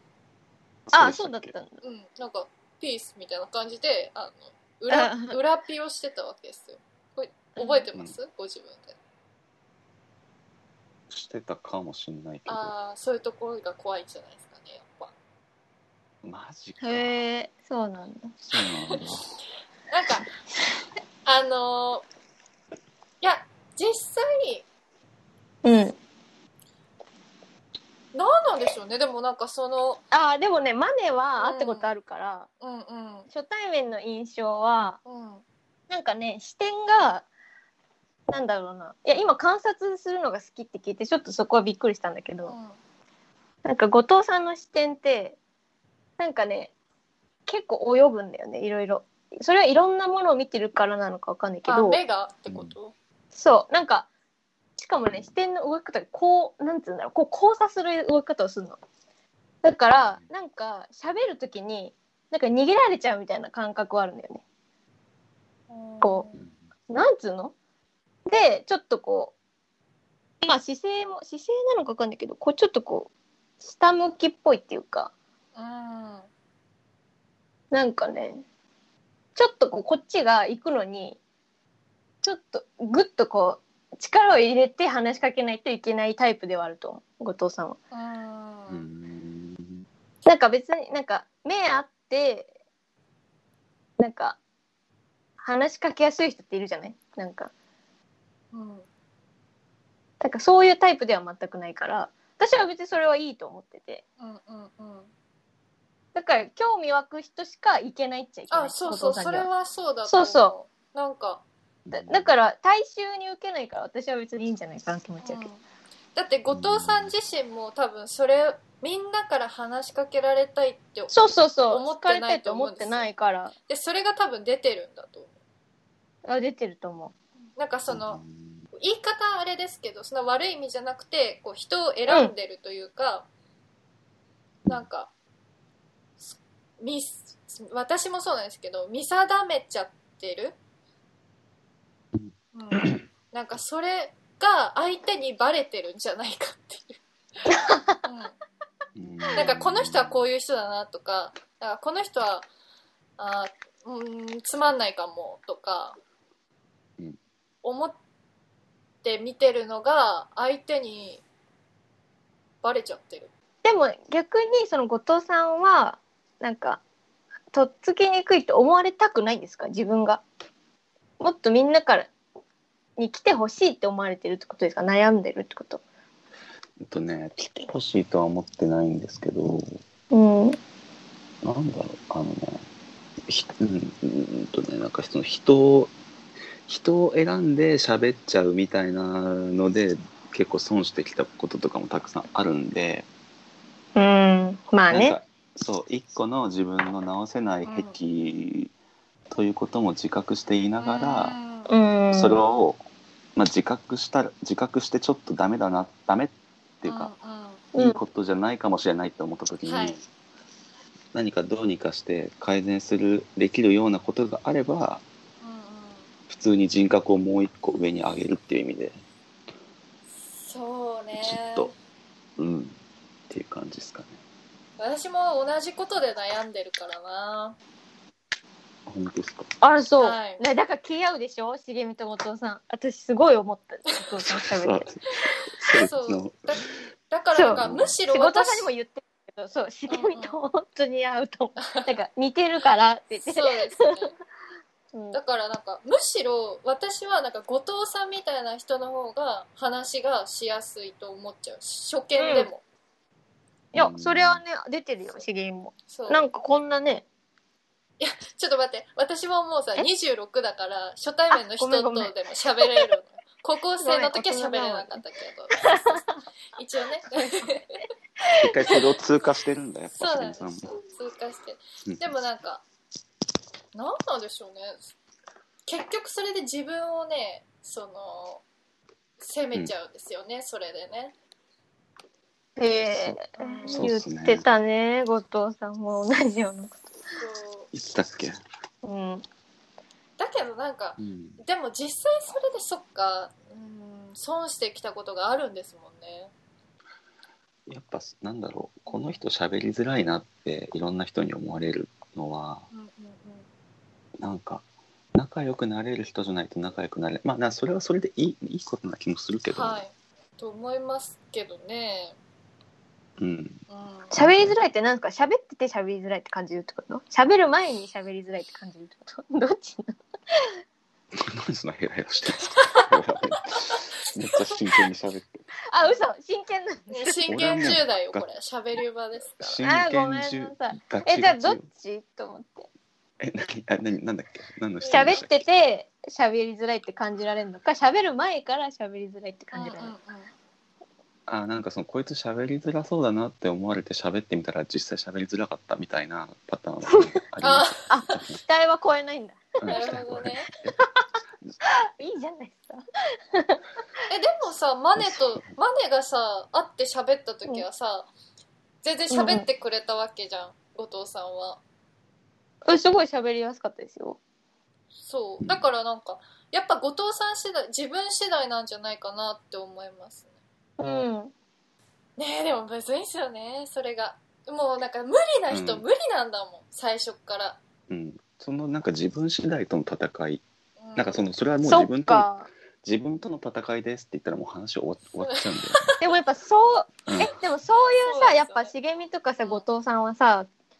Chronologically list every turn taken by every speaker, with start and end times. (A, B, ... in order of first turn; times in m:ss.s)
0:00.9-0:01.5 A
0:00.9-0:01.8 B
0:01.8-0:09.0 C
0:04.9-0:05.4 B
0:07.6-0:07.8 B
0:11.1-0:12.7 A
0:12.5-0:15.1 C
0:16.2-0:17.2 A
0:16.8-0:18.4 B
0:18.4-0:19.4 A
0:19.9-0:20.3 C
0:21.2-0:22.0 C
0:23.2-0:24.6 C
0:25.6-0:26.0 B
0:28.1-0:30.0 C
0:30.1-0:32.5 B
0:31.4-0:31.9 C
0:32.6-0:33.3 C
0:33.3-0:35.0 B
0:35.0-0:35.4 C
0:35.9-0:37.2 B
0:38.3-0:42.5 B
0:42.5-0:42.8 C
0:43.6-0:45.4 B
0:46.2-0:46.7 B
0:47.4-0:52.0 B
0:51.6-0:52.9 C
0:52.5-0:52.7 A
0:53.3-0:54.1 B
0:54.8-0:58.8 B
0:59.6-1:04.4 B
1:00.0-1:00.3 A
1:05.7-1:06.4 C
1:06.0-1:06.3 B
1:06.9-1:07.5 B
1:08.3-1:09.3 B
1:10.4-1:13.1 B
1:13.6-1:15.1 B
1:15.5-1:16.3 C
1:17.7-1:18.4 B
1:19.4-1:21.2 B
1:22.2-1:27.8 B
1:27.9-1:28.8 C
1:28.7-1:29.8 A
1:30.2-1:32.5 B
1:34.0-1:34.4 B
1:35.4-1:37.5 B
1:38.5-1:38.8 C
1:40.2-1:44.0 B
1:44.2-1:45.1 C
1:46.1-1:49.5 B
1:48.5-1:51.4 C
1:50.0-1:50.5 B
1:51.9-1:52.3 A
1:51.9-1:55.5 B
1:55.2-1:55.6 C
1:56.1-2:03.1 C
1:56.5-1:57.1 A
2:01.1-2:03.5 B
2:03.7-2:05.3 C
2:06.2-2:07.1 B
2:07.6-2:08.2 C
2:07.9-2:08.6 A
2:08.7-2:13.3 C
2:12.1-2:12.3 B
2:14.7-2:15.1 C
2:16.2-2:20.6 C
2:22.1-2:23.0 A
2:22.5-2:27.0 C
2:27.5-2:28.0 B
2:28.0-2:28.4 C
2:29.0-2:30.2 A
2:29.3-2:32.5 C
2:33.2-2:36.0 C
2:37.6-2:38.0 C
2:39.0-2:41.2 C
2:42.6-2:43.3 C
2:43.6-2:46.8 B
2:47.5-2:50.2 B
2:51.2-2:52.1 B
2:53.0-2:55.8 B
2:56.8-2:59.8 A
3:00.1-3:00.6 B
3:01.4-3:02.6 A
3:03.3-3:05.9 A
3:06.7-3:13.0 A
3:13.9-3:15.2 B
3:14.9-3:18.7 A
3:17.6-3:17.9 C
3:19.3-3:21.4 A
3:20.8-3:21.7 C
3:21.7-3:22.4 B
3:22.1-3:22.8 A
3:23.4-3:27.1 A
3:26.8-3:27.6 C
3:27.7-3:28.0 B
3:27.7-3:30.0 A
3:29.6-3:30.0 C
3:31.1-3:35.0 A
3:35.4-3:36.1 C
3:36.3-3:39.0 A
3:40.2-3:41.7 C
3:41.2-3:41.7 A
3:42.4-3:42.8 A
3:43.3-3:44.2 A
3:44.8-3:47.6 C
3:48.9-3:49.5 A
3:49.6-3:54.9 B
3:50.0-3:50.4 C
3:54.4-3:55.0 A
3:55.2-3:58.7 C
3:55.6-3:56.4 A
3:57.3-4:04.0 B
3:57.5-3:58.0 A
3:59.9-4:00.4 C
4:01.6-4:01.9 C
4:03.2-4:04.1 C
4:04.9-4:05.2 B
4:05.1-4:12.6 C
4:12.2-4:12.5 B
4:13.7-4:14.4 A
4:13.7-4:17.0 B
4:15.9-4:16.2 C
4:18.0-4:26.0 C
4:21.3-4:22.1 B
4:23.8-4:25.0 B
4:25.5-4:26.1 B
4:26.5-4:27.8 C
4:27.2-4:27.5 B
4:28.2-4:28.7 B
4:28.3-4:30.8 A
4:29.9-4:32.6 C
4:33.7-4:34.9 C
4:35.7-4:38.4 C
4:39.2-4:41.1 C
4:42.6-4:46.7 B
4:42.9-4:44.4 A
4:43.4-4:43.9 C
4:47.2-4:47.7 C
4:47.7-4:48.4 A
4:48.8-4:49.2 B
4:50.2-4:56.3 C
4:51.0-4:51.4 A
4:57.7-5:02.7 A
5:02.7-5:03.4 C
5:04.2-5:04.6 A
5:05.1-5:09.8 A
5:09.5-5:12.2 C
5:13.2-5:14.6 A
5:13.7-5:14.1 C
5:14.1-5:20.5 B
5:21.1-5:25.4 A
5:22.6-5:22.9 C
5:23.7-5:24.1 C
5:25.7-5:27.2 B
5:26.9-5:29.6 C
5:27.3-5:28.3 A
5:29.4-5:31.6 A
5:29.6-5:32.7 B
5:33.2-5:35.4 A
5:34.8-5:35.2 C
5:34.9-5:39.9 B
5:39.5-5:40.3 C
5:41.3-5:47.7 A
5:47.4-5:48.2 C
5:47.9-5:50.0 B
5:49.6-5:50.7 A
5:49.7-5:50.5 C
5:50.6-5:51.1 B
5:51.6-5:53.6 B
5:54.1-5:58.1 C
5:55.0-5:55.5 A
5:58.8-6:01.6 C
5:59.1-5:59.4 B
6:02.6-6:04.2 B
6:05.0-6:10.3 C
6:10.8-6:11.3 B
6:12.2-6:17.6 C
6:15.5-6:15.8 A
6:17.9-6:20.4 A
6:20.8-6:21.3 C
6:21.0-6:25.9 A
6:21.6-6:22.5 B
6:25.2-6:26.0 C
6:26.0-6:30.5 B
6:27.1-6:27.4 A
6:28.0-6:28.7 C
6:29.4-6:29.6 C